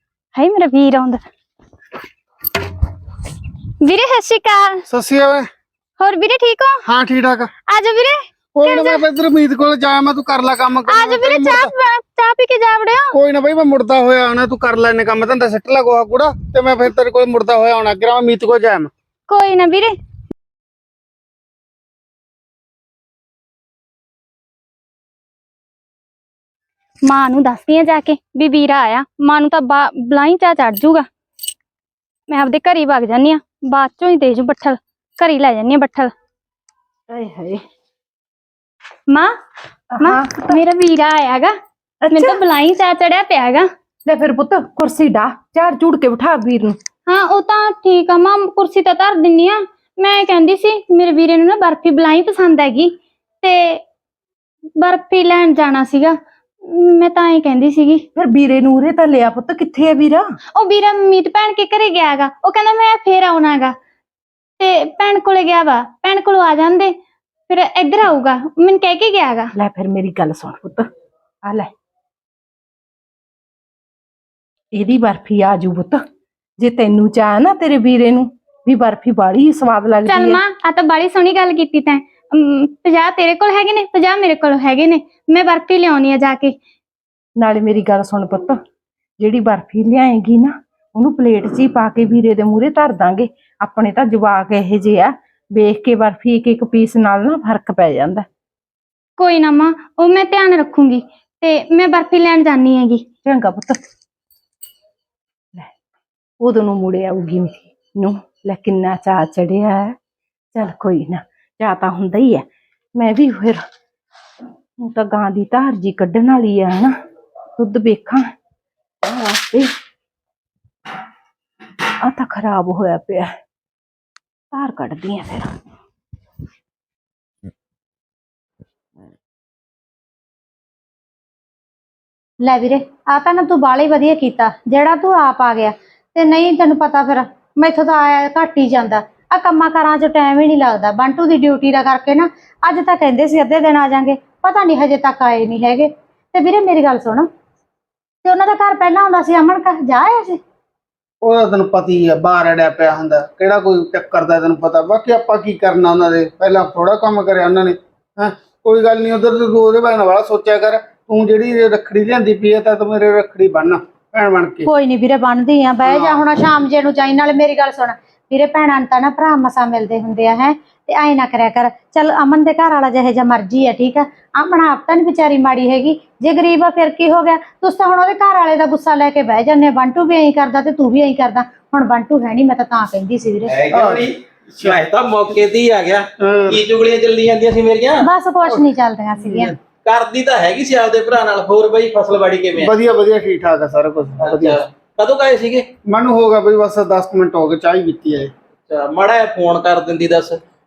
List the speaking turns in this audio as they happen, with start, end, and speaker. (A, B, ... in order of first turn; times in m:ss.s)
0:00.3-0:01.2 A
0:03.8-0:04.8 A
0:04.9-0:05.5 B
0:06.0-0:06.8 A
0:06.8-0:07.5 B
0:07.7-0:09.0 A
0:08.6-0:11.7 B
0:10.9-0:13.2 A
0:13.1-0:18.9 B
0:19.3-0:20.0 A
0:27.0-0:31.1 A
0:32.3-0:36.1 A
0:37.1-0:37.6 C
0:39.1-0:39.3 A
0:39.9-0:40.6 C
0:40.0-0:41.6 A
0:42.0-0:42.4 C
0:42.1-0:43.7 A
0:44.1-0:46.8 C
0:47.1-0:53.8 A
0:54.8-0:58.0 A
0:58.2-1:00.4 C
1:00.6-1:03.8 A
1:04.6-1:07.0 A
1:07.5-1:09.5 A
1:09.6-1:10.9 C
1:11.4-1:11.7 C
1:14.7-1:16.0 C
1:16.6-1:20.4 C
1:20.1-1:26.6 A
1:27.4-1:28.6 C
1:29.2-1:38.3 C
1:39.2-1:43.1 A
1:43.2-1:43.8 C
1:46.4-1:50.0 C
1:50.6-1:52.4 C
1:53.0-1:53.6 C
1:54.8-1:57.0 C
1:57.6-1:58.3 C
1:59.0-1:59.7 C
2:02.0-2:03.3 C
2:04.5-2:05.5 C
2:12.4-2:27.3 D
2:28.2-2:30.4 D
2:31.2-2:44.7 B
2:44.6-3:03.6 D
2:45.8-2:46.4 B
3:03.5-3:08.1 E
3:03.7-3:04.8 B
3:06.2-3:06.6 B
3:08.0-3:09.5 D
3:09.2-3:09.6 B
3:09.8-3:12.7 E
3:12.6-3:14.6 B
3:14.2-3:15.7 E
3:15.9-3:18.3 B
3:18.7-3:20.4 E